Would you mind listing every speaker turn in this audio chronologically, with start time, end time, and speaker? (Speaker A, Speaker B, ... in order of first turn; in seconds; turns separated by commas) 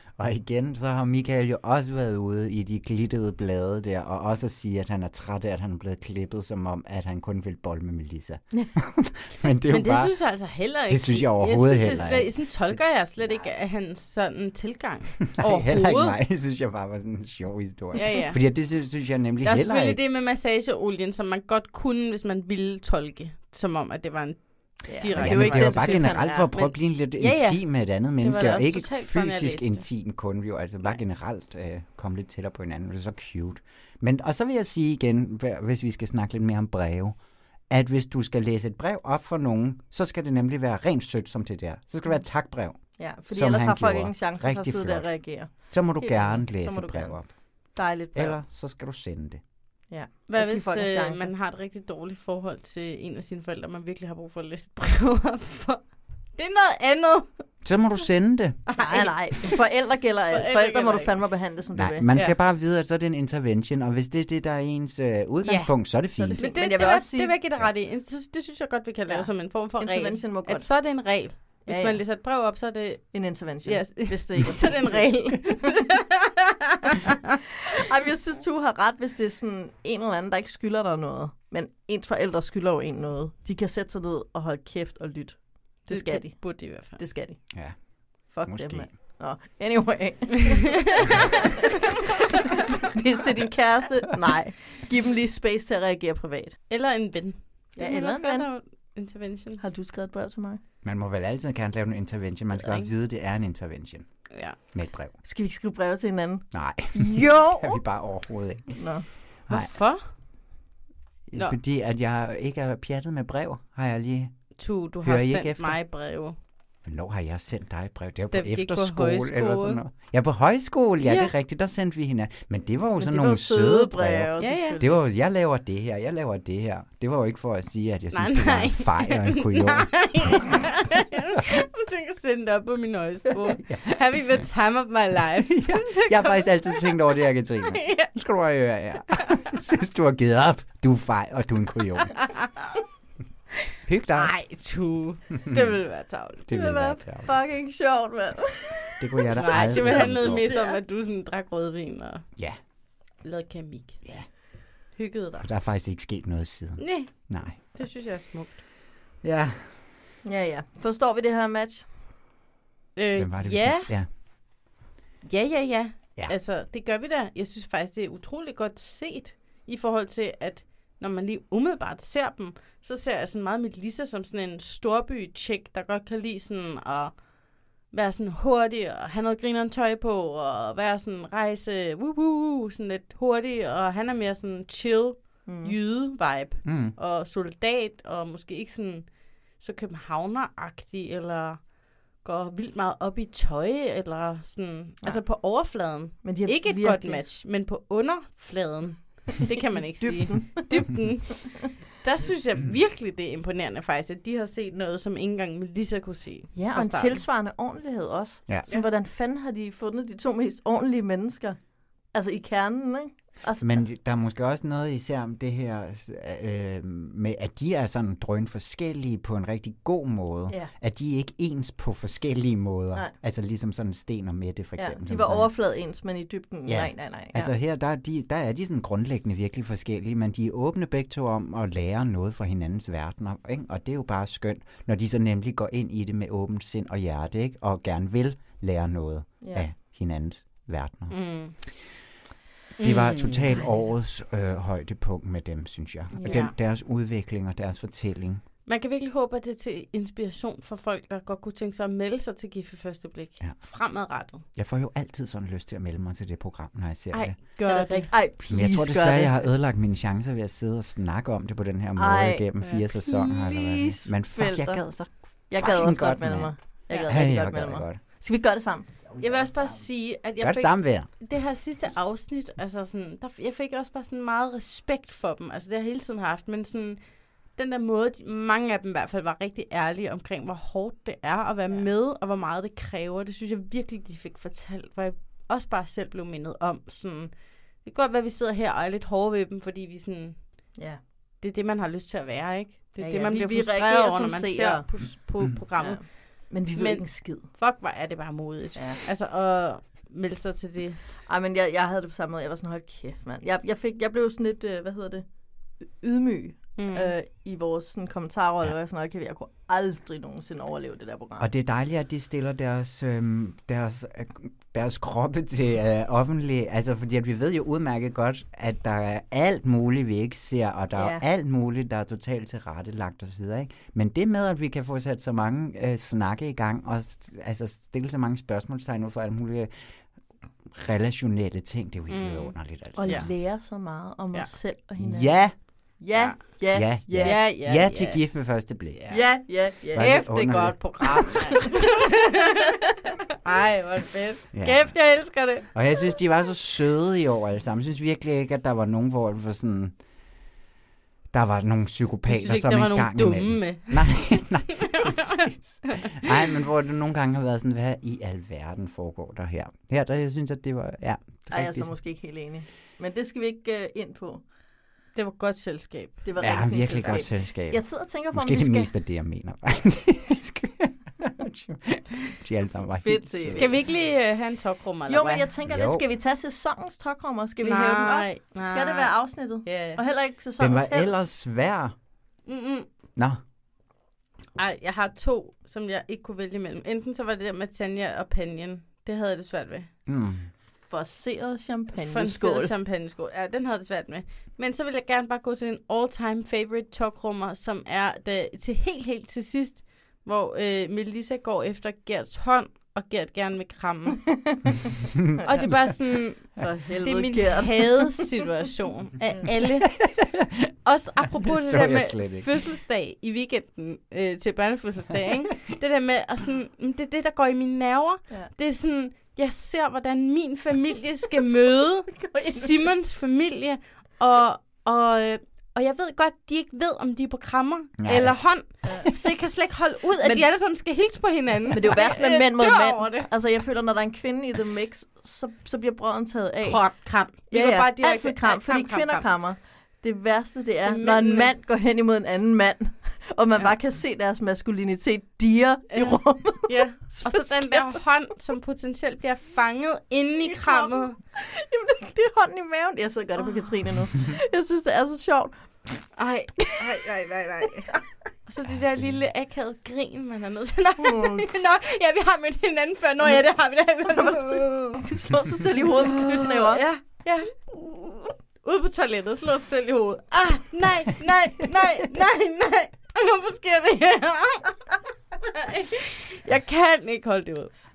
Speaker A: 0.2-10.2, Speaker B: 9.7-16.1, Speaker A: 10.9-12.3, Speaker A: 15.3-20.0, Speaker B: 17.9-18.4, Speaker B: 19.4-29.8, Speaker C: 24.9-26.5, Speaker A: 25.1-37.2, Speaker A: 37.7-47.3, Speaker C: 43.0-47.1, Speaker C: 47.7-48.4, Speaker A: 48.1-49.4, Speaker C: 49.9-51.3, Speaker B: 50.3-57.4, Speaker A: 57.6-58.6, Speaker B: 58.7-59.6, Speaker C: 58.8-62.1, Speaker B: 60.3-61.1, Speaker A: 61.7-66.5, Speaker B: 65.4-77.2, Speaker C: 66.3-67.4, Speaker C: 69.1-70.8, Speaker C: 71.7-72.0, Speaker C: 73.1-75.8, Speaker C: 77.7-87.5, Speaker B: 85.9-87.0, Speaker C: 88.3-91.8, Speaker A: 88.4-88.9, Speaker C: 92.3-96.6, Speaker B: 96.7-99.6, Speaker C: 97.8-98.5, Speaker C: 99.6-100.6, Speaker A: 100.8-104.1, Speaker B: 102.5-102.9, Speaker B: 104.3-104.6, Speaker A: 104.7-105.1, Speaker C: 105.2-107.8, Speaker A: 106.5-108.8, Speaker C: 108.8-109.0, Speaker B: 109.5-110.1, Speaker A: 111.3-114.3, Speaker B: 114.6-116.3, Speaker A: 115.0-115.8, Speaker A: 116.8-130.5, Speaker B: 118.3-119.8, Speaker B: 121.0-121.3, Speaker C: 123.0-125.0, Speaker B: 124.4-124.8, Speaker B: 128.1-136.9, Speaker A: 133.6-134.0, Speaker A: 135.4-142.2, Speaker B: 137.7-138.1, Speaker B: 139.2-139.4, Speaker A: 143.8-144.4, Speaker B: 144.1-146.5, Speaker A: 145.4-145.7, Speaker A: 146.5-147.3, Speaker C: 146.5-150.8, Speaker A: 149.0-150.5, Speaker B: 149.3-152.2, Speaker B: 153.2-154.0, Speaker B: 154.9-155.4, Speaker A: 155.4-157.6, Speaker B: 156.8-158.6, Speaker A: 159.2-159.7, Speaker C: 160.2-161.9, Speaker B: 162.9-163.9, Speaker A: 163.2-164.1, Speaker B: 165.2-177.2, Speaker B: 177.9-207.2, Speaker C: 185.4-185.7, Speaker A: 186.6-186.9, Speaker C: 196.2-197.2, Speaker C: 200.0-200.7, Speaker C: 206.5-211.6, Speaker C: 212.1-213.8, Speaker A: 213.6-225.5, Speaker C: 224.8-227.5, Speaker A: 226.7-241.6, Speaker C: 239.4-239.7, Speaker B: 241.1-241.6, Speaker B: 242.8-243.8, Speaker A: 242.8-248.4, Speaker C: 246.1-246.4, Speaker B: 246.2-246.5, Speaker B: 248.7-254.4, Speaker A: 254.5-257.4, Speaker B: 257.1-258.1, Speaker C: 257.6-259.4, Speaker A: 258.5-268.0, Speaker C: 261.9-268.9, Speaker B: 269.2-277.0, Speaker A: 269.3-269.7, Speaker A: 270.4-271.1, Speaker B: 277.5-290.4, Speaker B: 291.4-296.1, Speaker C: 293.0-295.0, Speaker C: 295.8-297.5, Speaker B: 296.7-301.0, Speaker C: 301.3-305.2, Speaker C: 306.0-311.5, Speaker B: 306.8-307.1, Speaker A: 311.4-329.7, Speaker C: 320.9-321.2, Speaker A: 330.7-333.3, Speaker B: 332.1-333.3, Speaker C: 333.0-337.4, Speaker A: 335.0-335.6, Speaker B: 336.1-336.5, Speaker A: 336.7-339.0, Speaker B: 337.1-338.2, Speaker B: 338.9-342.8, Speaker C: 339.1-340.2, Speaker A: 339.9-341.5, Speaker B: 343.4-345.8, Speaker A: 344.5-345.1, Speaker A: 345.7-349.9, Speaker A: 351.3-361.9, Speaker B: 352.3-355.4, Speaker C: 361.5-364.4, Speaker B: 365.1-367.2, Speaker C: 366.2-368.9, Speaker A: 366.4-373.7, Speaker C: 373.0-373.8, Speaker B: 373.5-375.5, Speaker C: 375.1-381.2, Speaker A: 375.7-376.0, Speaker B: 377.6-380.0, Speaker A: 380.6-381.9, Speaker B: 382.4-382.9, Speaker B: 384.6-389.9, Speaker A: 390.1-390.5, Speaker C: 390.9-392.7, Speaker B: 392.0-404.3, Speaker C: 404.3-404.7, Speaker A: 405.3-405.8, Speaker B: 405.4-409.9, Speaker C: 406.6-408.3, Speaker A: 409.9-410.7, Speaker B: 410.8-433.3, Speaker A: 411.4-412.5, Speaker C: 422.1-422.9, Speaker A: 428.0-428.4, Speaker C: 430.2-430.5, Speaker C: 431.7-448.0, Speaker B: 436.6-439.3, Speaker B: 440.9-441.5, Speaker B: 445.9-451.2, Speaker C: 450.5-455.6, Speaker B: 456.2-465.0, Speaker C: 461.0-461.4, Speaker C: 464.1-466.8, Speaker B: 466.0-474.8, Speaker B: 475.5-477.7